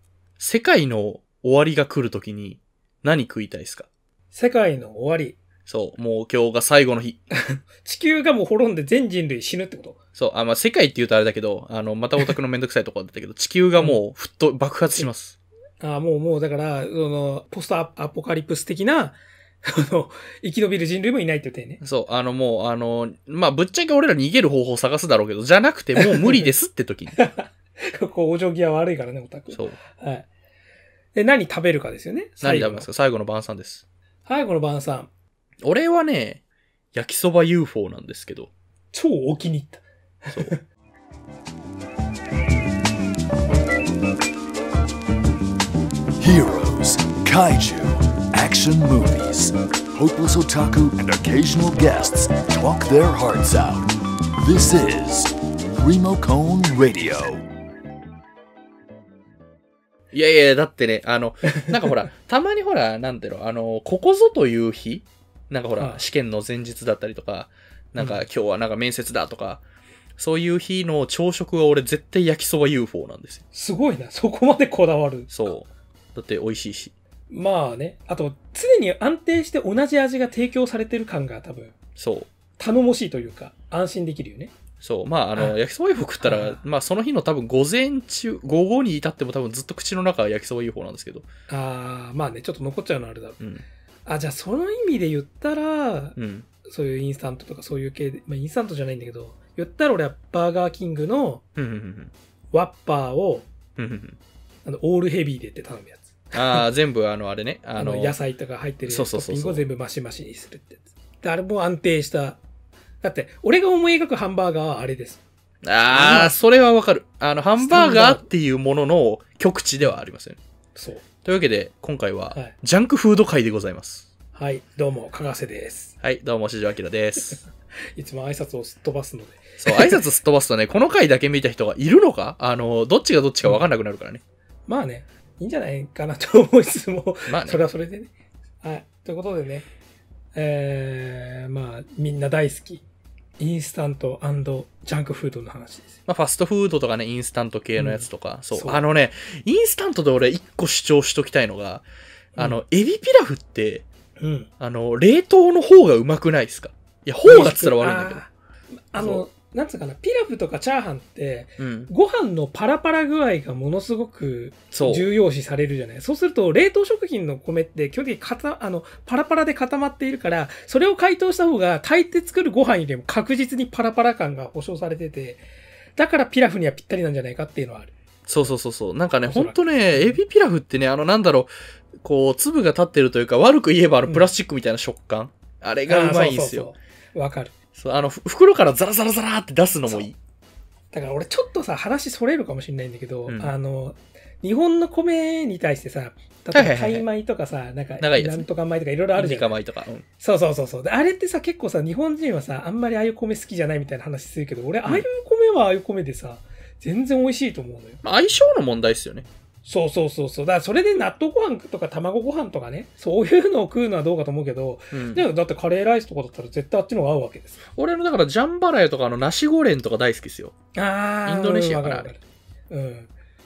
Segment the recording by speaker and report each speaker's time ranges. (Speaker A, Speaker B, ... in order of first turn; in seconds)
Speaker A: 0.4-3.9, 5.7-7.2, 10.2-15.4, 21.8-27.2, 29.5-29.8, 32.4-33.8, 35.6-36.4, 36.9-38.5, 60.1-69.6, 70.2-73.4, 75.3-76.9, 82.0-82.3, 84.8-91.2, 93.4-93.6, 96.2-96.5, 101.6-102.1, 103.8-104.2, 106.3-108.1, 108.8-109.6, 115.6-120.4, 121.2-124.1, 126.0-127.4, 129.6-134.2, 137.3-137.6, 146.1-151.8, 152.4-153.9, 154.6-158.2, 159.0-159.2, 161.6-161.9, 164.7-165.1, 178.3-181.5, 182.0-186.7, 187.8-190.2, 193.3-193.5, 196.5-197.1, 198.0-198.5, 199.1-200.1, 208.0-209.2, 214.9-215.2, 217.7-220.5, 221.2-222.1
Speaker B: 4.3-5.4, 7.4-10.0, 15.8-21.8, 26.0-26.5, 27.2-30.3, 31.1-32.9, 34.3-35.1, 38.9-40.6, 65.8-66.0, 68.0-68.2, 73.5-75.3, 77.3-81.7, 82.6-84.5, 86.2-86.6, 91.5-93.4, 94.0-101.4, 102.5-103.5, 104.6-106.7, 107.8-112.4, 113.0-115.2, 115.9-116.4, 117.6-118.2, 120.7-121.0, 124.3-125.9, 128.0-130.0, 134.7-138.1, 138.6-139.7, 140.3-142.8, 143.4-146.0, 147.8-148.8, 152.3-152.6, 154.2-154.5, 157.2-158.3, 158.9-175.4, 176.0-177.9, 179.3-180.2, 185.9-187.5, 190.9-199.5, 200.2-208.0, 209.6-217.6, 220.8-223.1
Speaker C: 46.2-57.5